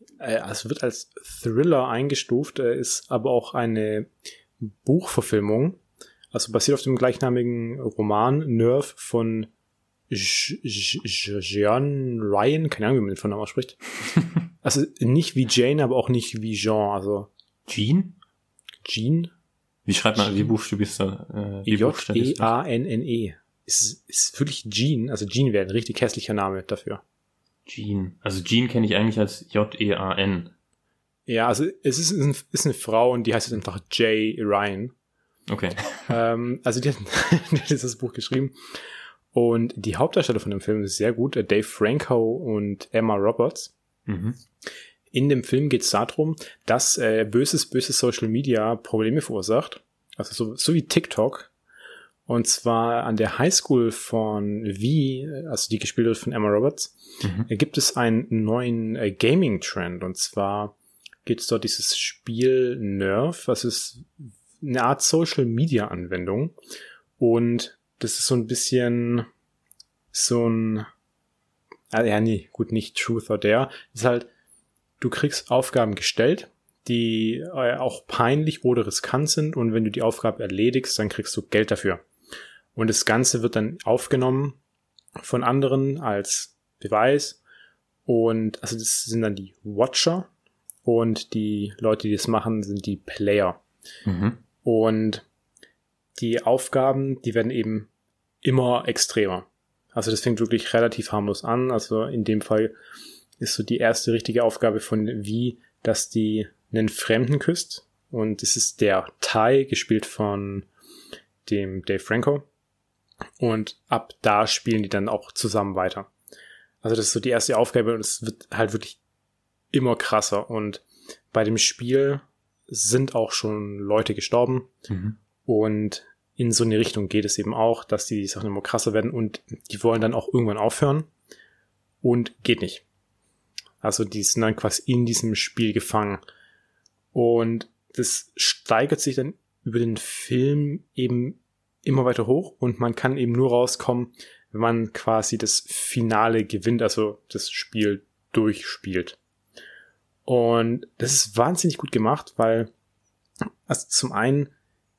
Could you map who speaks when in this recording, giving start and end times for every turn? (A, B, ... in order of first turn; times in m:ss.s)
0:00.2-0:05.8 A
0:06.3-0:09.5 A
0:10.1-0:13.8 A
0:14.6-0:17.3 A
0:17.7-0:18.2 B
0:18.8-0:19.3 A
0:19.8-0:22.5 B
0:21.6-0:27.0 A
0:27.6-0:30.5 B
0:31.3-0:34.9 A
0:35.5-0:36.0 B
0:36.1-0:38.6 A
0:39.3-0:43.7 A
0:44.1-0:44.4 B
0:45.1-0:51.5 A
0:52.3-1:00.7 A
0:57.2-0:57.5 B
1:01.2-1:06.6 A
1:07.2-1:09.3 A
1:10.1-1:10.9 A
1:11.9-1:14.3 A
1:15.0-1:22.0 A
1:22.7-1:24.6 A
1:25.2-1:27.4 A
1:28.0-1:30.3 A
1:30.8-1:33.6 A
1:34.0-1:34.4 B
1:34.6-1:35.2 A
1:36.2-1:37.9 A
1:38.4-1:42.7 A
1:43.4-1:50.7 A
1:51.4-1:52.4 A
1:53.4-1:56.1 A
1:56.8-1:59.0 A
1:59.7-2:04.7 A
2:04.9-2:05.2 B
2:05.4-2:11.1 A
2:12.0-2:12.8 A
2:13.8-2:16.2 A
2:17.1-2:29.2 A
2:30.2-2:32.7 A
2:33.7-2:34.5 A